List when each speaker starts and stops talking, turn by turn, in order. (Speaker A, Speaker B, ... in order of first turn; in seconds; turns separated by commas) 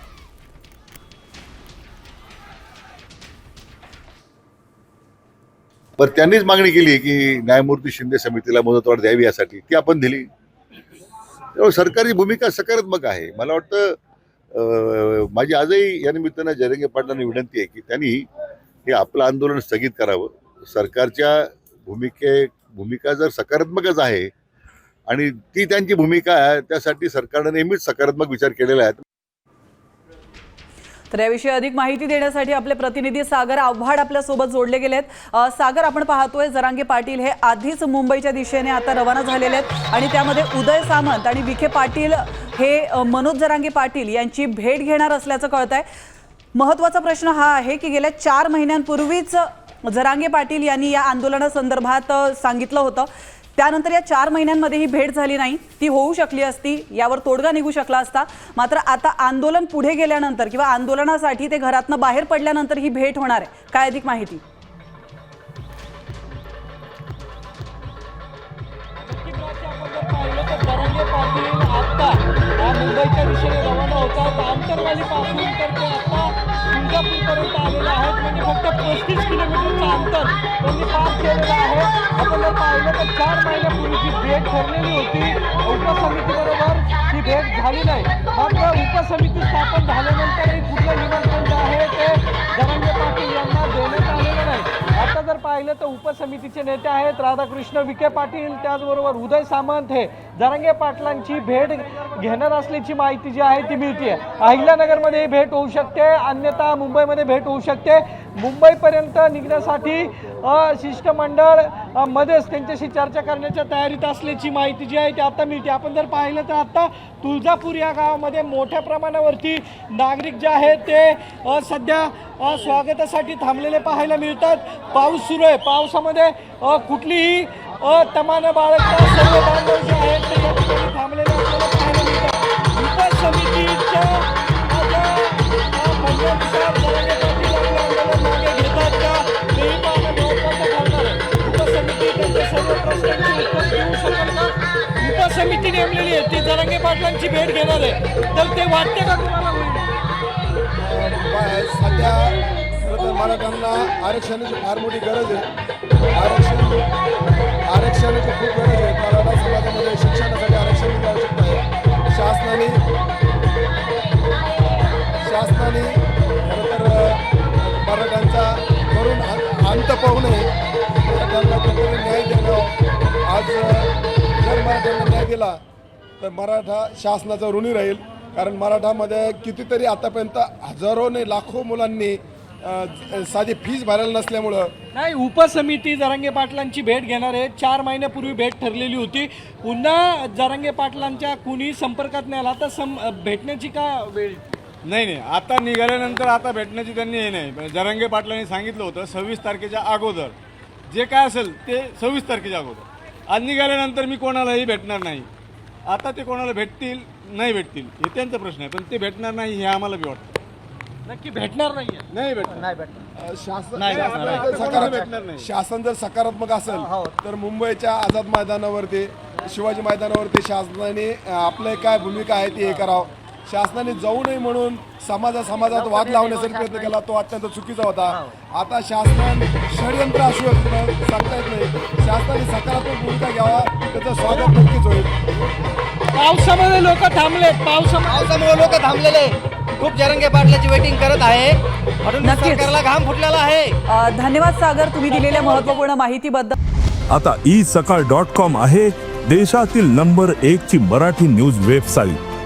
Speaker A: 6.0-10.3, Speaker A: 11.6-14.0, Speaker A: 14.5-18.3, Speaker A: 18.9-24.3, Speaker A: 25.1-29.0, Speaker B: 31.1-45.9, Speaker B: 46.5-64.4, Speaker C: 69.0-149.9, Speaker D: 150.8-155.5, Speaker D: 156.1-156.9, Speaker D: 157.7-162.8, Speaker D: 165.2-170.5, Speaker D: 171.1-175.6, Speaker D: 176.2-184.7, Speaker C: 184.9-194.5, Speaker E: 194.9-200.3, Speaker E: 200.9-205.3, Speaker E: 205.9-210.3, Speaker C: 211.1-212.1, Speaker E: 212.1-212.7, Speaker F: 212.7-213.0, Speaker D: 213.2-235.1, Speaker E: 213.8-215.5, Speaker F: 213.9-215.1, Speaker F: 216.8-217.1, Speaker F: 225.7-226.9, Speaker C: 236.2-238.8, Speaker F: 238.1-243.8, Speaker B: 242.2-242.7, Speaker B: 243.9-246.6, Speaker C: 245.1-245.8, Speaker G: 247.1-252.2